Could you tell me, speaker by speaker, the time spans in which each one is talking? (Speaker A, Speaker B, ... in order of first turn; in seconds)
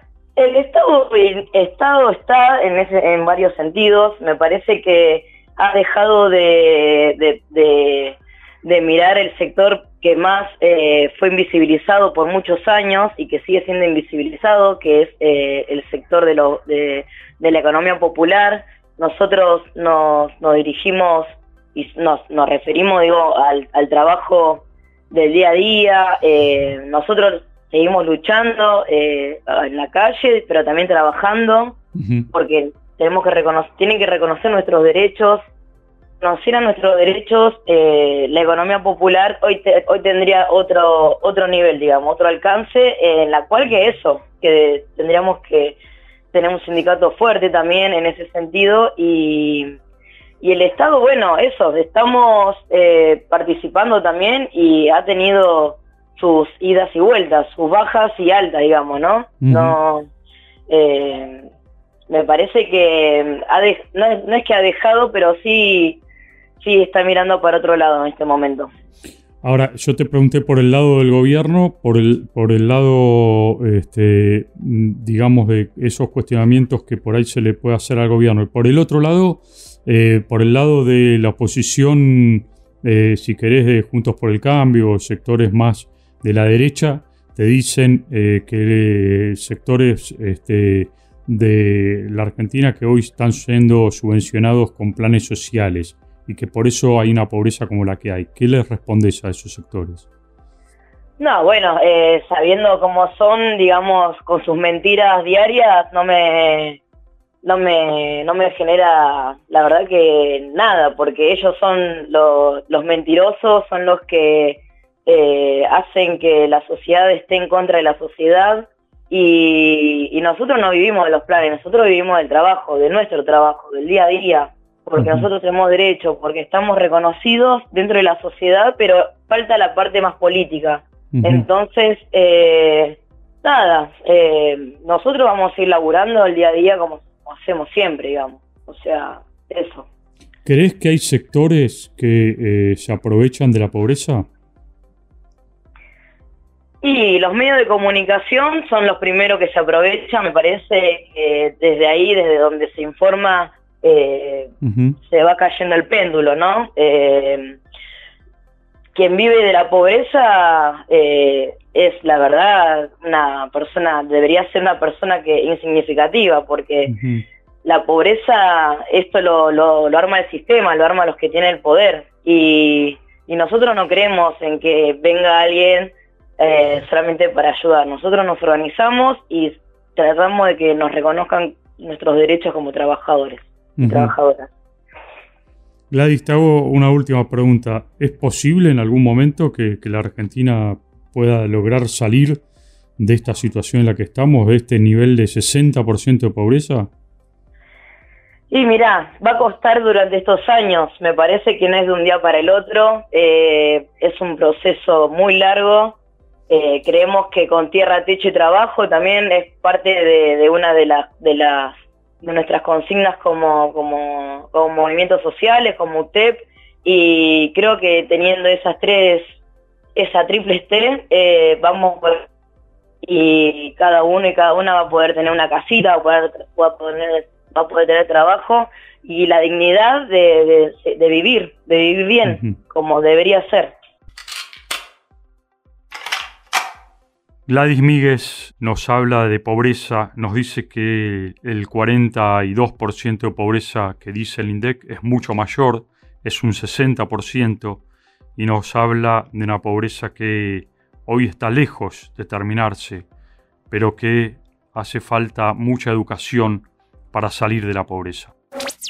Speaker A: 0.4-31.8, 32.3-35.5, 36.2-45.8, 46.3-49.8, 50.4-60.1, 60.7-61.5, 62.1-66.0, 66.6-68.7, 101.2-106.8, 107.4-139.9, 146.8-157.6, 158.9-166.9, 167.6-184.5, 198.5-206.0, 206.5-219.4, 219.9-222.3, 223.0-233.7
Speaker B: 32.0-32.3, 59.4-59.8, 69.4-100.0, 125.0-125.3, 131.1-131.4, 140.4-144.2, 154.6-155.0, 166.9-167.2, 183.8-184.1, 185.9-192.4, 193.0-196.9, 232.2-232.5, 237.5-247.8, 248.4-253.1, 253.7-258.3